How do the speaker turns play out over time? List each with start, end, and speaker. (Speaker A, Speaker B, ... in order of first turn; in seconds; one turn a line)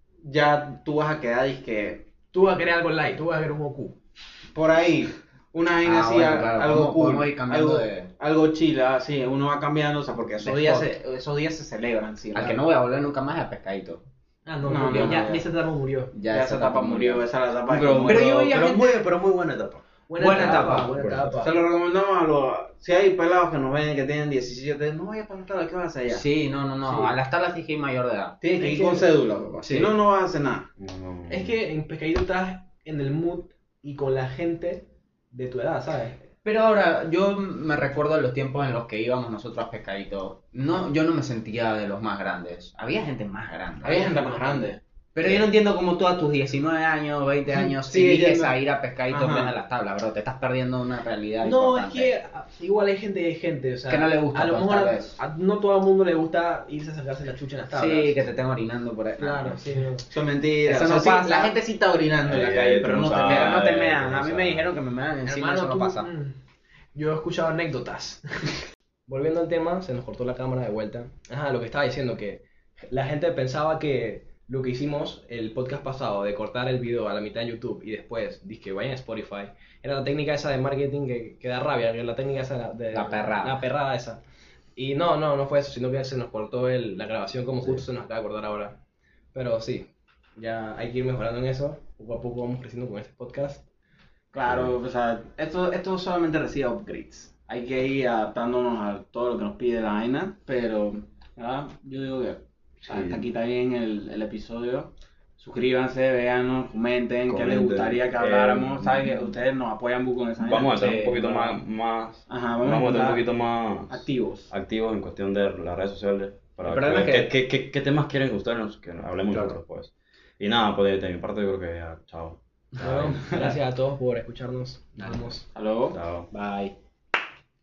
Speaker A: 0.2-2.1
Speaker B: 2.3-4.0
Speaker A: 4.5-12.6
Speaker C: 5.8-8.1
Speaker C: 10.4-10.9
Speaker C: 12.3-14.0
Speaker B: 14.4-16.1
Speaker C: 14.7-15.3
Speaker A: 14.7-15.4
Speaker C: 16.1-17.2
Speaker A: 16.3-18.4
Speaker D: 17.7-21.4
Speaker C: 18.1-19.0
Speaker B: 20.1-21.6
Speaker C: 20.2-20.9
Speaker A: 21.4-26.2
Speaker C: 26.1-28.4
Speaker A: 28.4-30.7
Speaker B: 28.5-29.1
Speaker C: 29.6-29.9
Speaker D: 30.8-31.5
Speaker B: 31.3-36.2
Speaker C: 36.4-52.1
Speaker A: 43.8-45.4
Speaker A: 47.6-48.6
Speaker A: 49.1-49.5
Speaker B: 51.4-58.2
Speaker C: 53.9-55.1
Speaker C: 57.7-59.6
Speaker B: 59.2-60.0
Speaker A: 60.1-63.6
Speaker C: 60.6-61.5
Speaker D: 62.2-64.7
Speaker C: 63.1-66.1
Speaker B: 65.2-66.3
Speaker B: 66.9-68.5
Speaker B: 69.1-84.2
Speaker C: 82.9-83.6
Speaker B: 84.8-88.8
Speaker B: 89.3-93.6
Speaker A: 94.3-110.7
Speaker D: 94.5-94.7
Speaker D: 102.8-103.3
Speaker D: 107.3-109.3
Speaker D: 110.4-123.6
Speaker C: 110.7-111.5
Speaker A: 112.3-113.2
Speaker A: 113.9-114.5
Speaker C: 116.6-117.3
Speaker B: 122.8-125.4
Speaker C: 125.0-125.2
Speaker A: 125.5-126.0
Speaker D: 125.9-126.3
Speaker C: 126.3-126.7